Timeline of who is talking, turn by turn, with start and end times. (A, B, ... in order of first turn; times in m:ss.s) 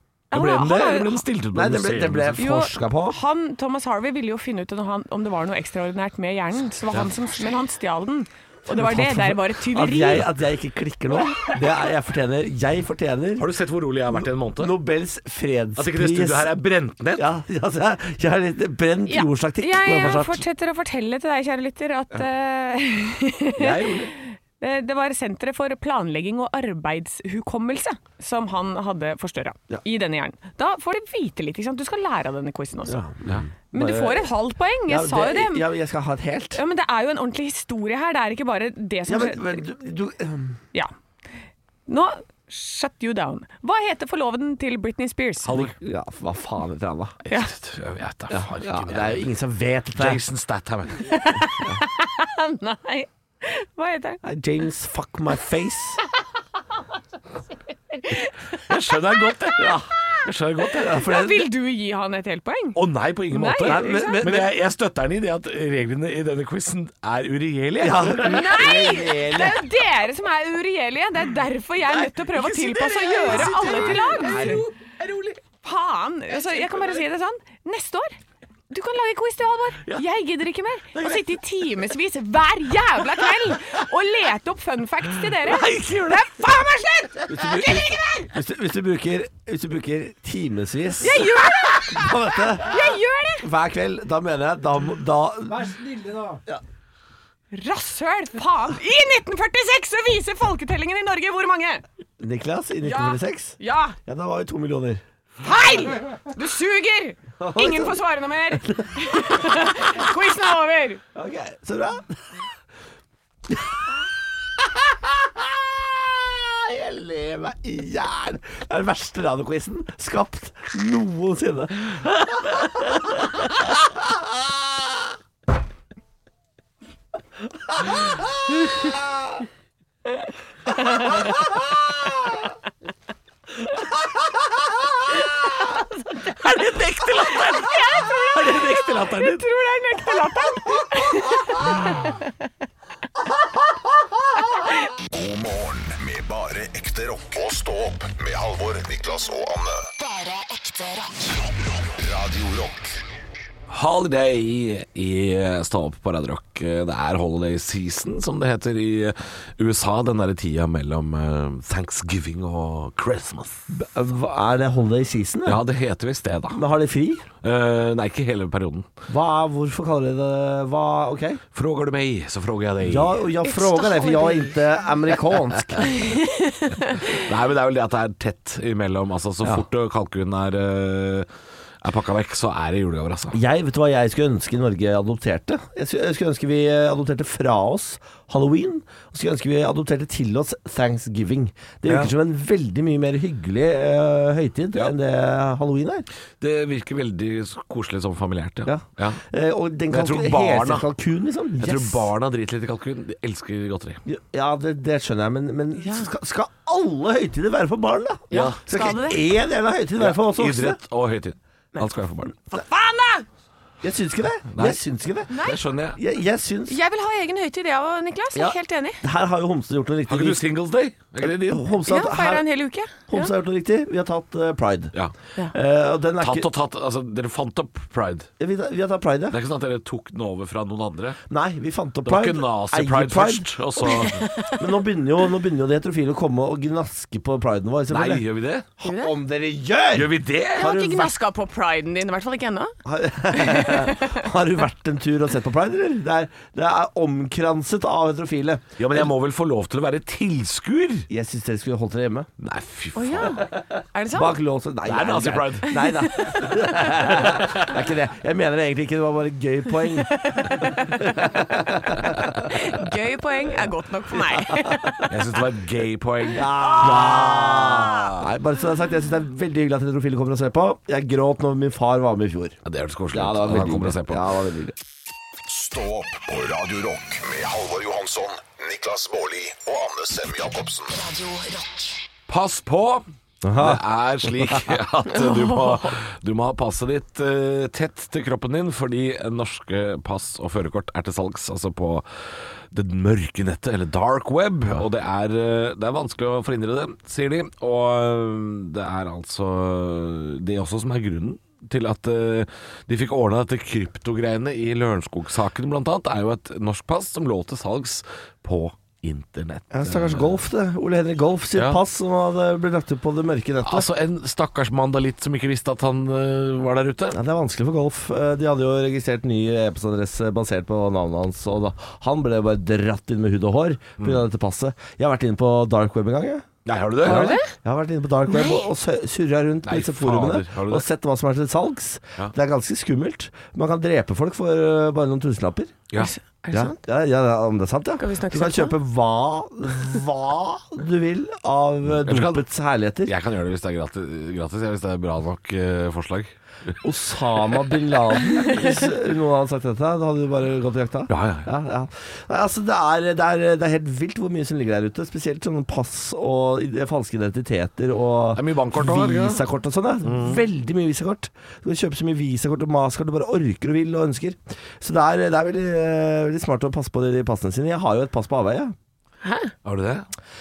0:00.3-0:01.2 A
0:00.3-0:02.4 B
0:01.5-0:03.2 C
0:02.4-0:10.3 A
0:08.7-0:13.5 C
0:13.4-0:14.7 B
0:14.2-0:16.5 C
0:15.8-0:17.3 B
0:17.2-0:20.4 C
0:19.1-0:33.0 A
0:23.6-0:24.1 C
0:32.9-0:34.3 C
0:33.7-0:35.7 A
0:34.8-0:36.6 C
0:36.5-0:39.6 A
0:39.1-0:40.6 C
0:41.9-0:45.7 A
0:45.4-0:45.7 B
0:45.5-0:47.2 C
0:47.2-0:49.3 B
0:47.3-0:47.5 A
0:48.3-0:50.2 C
0:49.9-0:51.3 B
0:51.0-0:54.2 A
0:54.2-0:56.0 C
0:57.9-0:58.4 A
0:58.6-1:01.0 B
0:59.6-0:59.9 C
1:00.8-1:01.5 C
1:00.9-1:02.8 A
1:02.8-1:08.5 B
1:03.3-1:04.3 A
1:03.6-1:04.5 C
1:07.8-1:09.6 C
1:08.2-1:14.6 A
1:12.0-1:15.4 B
1:13.4-1:14.6 C
1:15.6-1:18.2 A
1:16.4-1:16.9 B
1:18.7-1:28.3 A
1:25.5-1:26.0 B
1:25.7-1:26.0 C
1:27.3-1:32.9 C
1:31.0-1:33.5 A
1:33.4-1:36.6 C
1:37.5-1:41.8 A
1:42.2-1:45.0 C
1:42.8-1:44.0 A
1:45.4-1:51.0 A
1:47.4-1:49.8 C
1:51.1-1:52.2 C
1:53.5-1:54.0 C
1:54.6-2:05.1 C
2:07.6-2:09.4 C
2:10.1-2:11.3 A
2:11.4-2:12.1 C
2:15.4-2:16.2 A
2:16.3-2:19.4 B
2:16.6-2:17.3 C
2:17.2-2:22.5 A
2:18.7-2:19.0 C
2:25.1-2:29.9 D
2:30.0-2:31.4 E
2:31.5-2:33.0 D
2:33.7-2:43.7 B
2:43.7-2:45.6 C
2:45.4-2:46.6 B
2:46.5-2:47.2 C
2:47.4-2:48.9 B
2:49.1-2:51.4 C
2:51.5-2:53.2 B
2:52.8-2:55.9 C
2:53.4-2:54.6 A
2:55.8-2:57.2 A
2:57.0-3:01.3 B
3:01.8-3:03.4 B
3:03.3-3:16.1 C
3:16.4-3:19.2 B
3:18.6-3:22.1 C
3:19.9-3:20.9 B
3:21.6-3:24.0 B
3:24.0-3:30.8 C
3:25.8-3:26.1 A
3:28.3-3:29.2 A
3:28.3-3:28.6 B
3:30.0-3:32.3 B
3:32.5-3:33.2 A
3:33.8-3:35.3 C
3:34.5-3:34.8 B
3:35.3-3:35.6 A
3:35.4-3:36.0 B
3:36.0-3:36.8 C
3:36.7-3:39.0 A
3:38.3-3:40.4 C
3:40.1-3:41.6 B
3:41.2-3:42.4 C
3:41.8-3:43.3 A
3:43.0-3:44.9 C
3:45.5-3:46.5 C
3:46.2-3:48.3 B
3:48.4-3:49.4 C
3:49.3-3:51.2 B
3:51.3-3:54.0 C
3:52.0-3:54.2 B
3:53.9-3:54.6 A
3:54.6-3:58.2 C
3:57.9-3:58.7 B
3:58.8-4:01.1 C
3:58.8-3:59.1 A
3:59.9-4:00.7 B
4:00.6-4:02.8 A
4:02.8-4:09.1 C
4:03.3-4:04.2 A
4:08.8-4:11.1 B
4:11.1-4:12.3 C
4:12.4-4:13.5 B
4:12.9-4:14.4 A
4:14.1-4:22.5 C
4:14.8-4:15.9 B
4:15.7-4:17.0 A
4:17.2-4:17.7 B
4:20.0-4:21.0 A
4:22.4-4:25.1 A
4:24.3-4:25.0 C
4:25.0-4:28.2 B
4:26.3-4:32.6 C
4:26.5-4:28.1 A
4:32.6-4:34.2 B
4:33.1-4:34.8 C
4:35.4-4:41.0 D
4:40.9-4:42.0 E
4:42.3-4:52.0 B
4:43.4-4:43.8 C
4:45.1-4:46.0 A
4:52.7-5:10.4 B
5:09.7-5:13.9 C
5:11.5-5:11.8 B
5:13.6-5:17.2 B
5:17.1-5:26.5 C
5:24.0-5:24.2 B
5:26.6-5:27.4 B
5:27.0-5:35.8 C
5:27.0-5:27.5 A
5:28.3-5:28.7 A
5:29.6-5:30.8 B
5:36.0-5:36.8 A
5:36.5-5:43.1 C
5:38.0-5:38.8 A
5:42.0-5:42.4 B
5:43.0-5:46.7 B
5:46.8-6:08.7 C
5:51.1-5:51.5 B
5:58.3-5:59.5 B
6:00.0-6:00.4 B
6:09.2-6:09.5 A
6:09.6-6:10.0 B